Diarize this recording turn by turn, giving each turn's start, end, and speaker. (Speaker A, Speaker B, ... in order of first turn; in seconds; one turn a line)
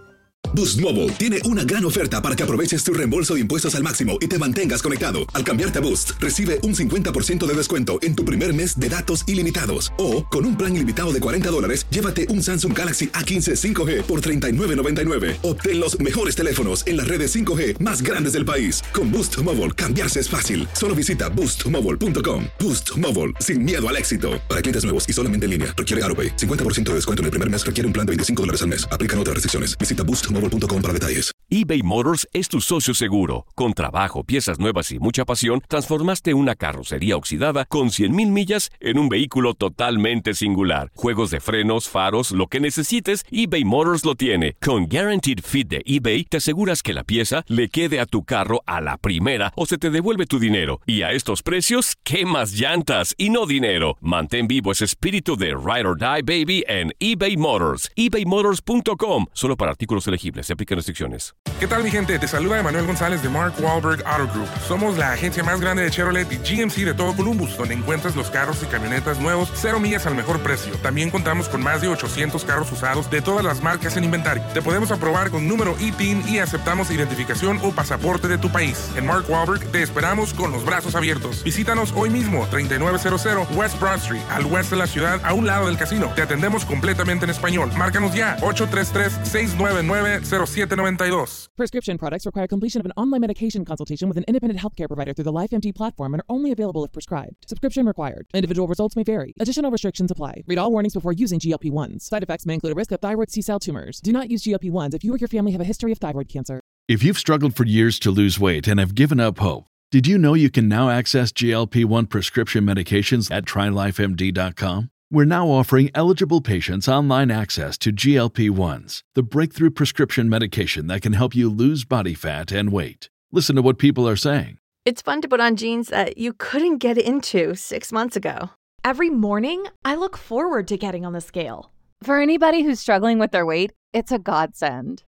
Speaker A: 0.5-31.3
Speaker B: 31.5-61.3
Speaker C: 61.6-91.4
Speaker D: 91.6-106.6
Speaker E: 106.9-124.6
Speaker F: 124.8-128.5
Speaker G: 128.8-131.7
Speaker H: 132.0-135.0